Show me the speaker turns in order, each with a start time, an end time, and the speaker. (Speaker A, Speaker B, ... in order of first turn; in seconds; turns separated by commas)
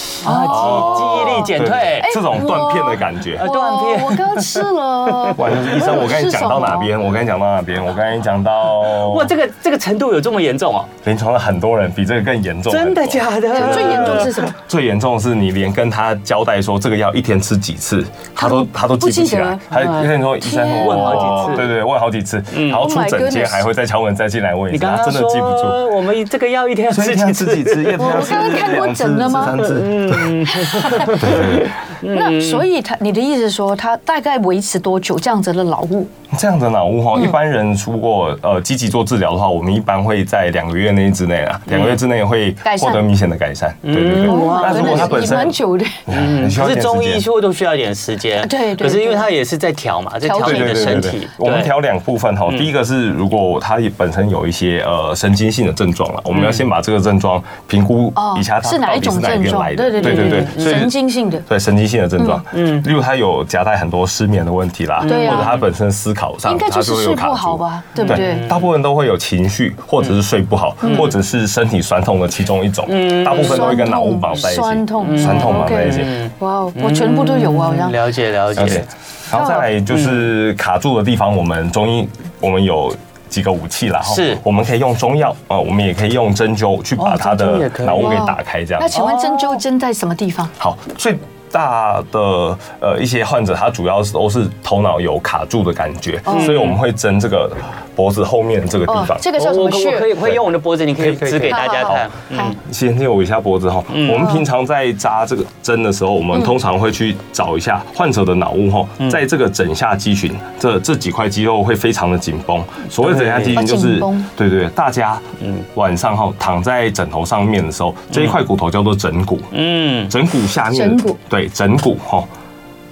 Speaker A: 0.2-2.1, Speaker B: 0.2-6.9, Speaker C: 0.5-3.5, Speaker A: 3.4-5.4, Speaker C: 5.3-9.3, Speaker A: 8.7-10.9, Speaker C: 11.0-25.8, Speaker A: 12.7-14.5, Speaker B: 13.5-14.6, Speaker B: 18.4-19.6, Speaker A: 19.7-21.7, Speaker B: 20.4-21.6, Speaker A: 22.5-22.8, Speaker B: 22.7-23.6, Speaker A: 24.7-28.6, Speaker C: 26.9-30.4, Speaker B: 28.0-29.6, Speaker A: 29.5-32.7, Speaker B: 30.5-31.3, Speaker C: 31.1-31.7, Speaker B: 32.1-36.1, Speaker C: 36.3-47.2, Speaker A: 41.7-42.0, Speaker B: 42.6-43.0, Speaker A: 43.8-45.5, Speaker B: 44.2-46.0, Speaker A: 46.1-51.7, Speaker B: 48.4-49.3, Speaker B: 50.2-51.1, Speaker C: 50.4-60.9, Speaker A: 56.3-56.6, Speaker B: 58.1-61.4, Speaker A: 60.0-60.9, Speaker C: 61.5-76.2, Speaker A: 62.5-62.8, Speaker A: 65.0-65.6, Speaker B: 65.0-65.6, Speaker B: 66.4-68.5, Speaker A: 68.0-68.7, Speaker B: 70.8-71.1, Speaker A: 70.8-71.1, Speaker A: 72.9-73.9, Speaker B: 73.4-78.0, Speaker A: 75.0-78.9, Speaker C: 78.5-88.9, Speaker B: 79.3-79.7, Speaker A: 79.9-80.3, Speaker A: 84.0-84.4, Speaker A: 87.0-88.2, Speaker B: 88.0-90.5, Speaker A: 88.9-89.6, Speaker C: 90.6-99.3, Speaker B: 96.3-96.5, Speaker A: 96.3-96.8, Speaker B: 98.9-100.1, Speaker A: 99.3-102.5, Speaker C: 101.0-102.0, Speaker B: 101.5-102.5, Speaker C: 102.6-119.5, Speaker A: 103.9-104.3, Speaker A: 113.0-113.6, Speaker B: 113.5-114.3, Speaker A: 118.1-118.4, Speaker A: 119.5-120.1, Speaker C: 120.1-122.3, Speaker B: 120.7-121.2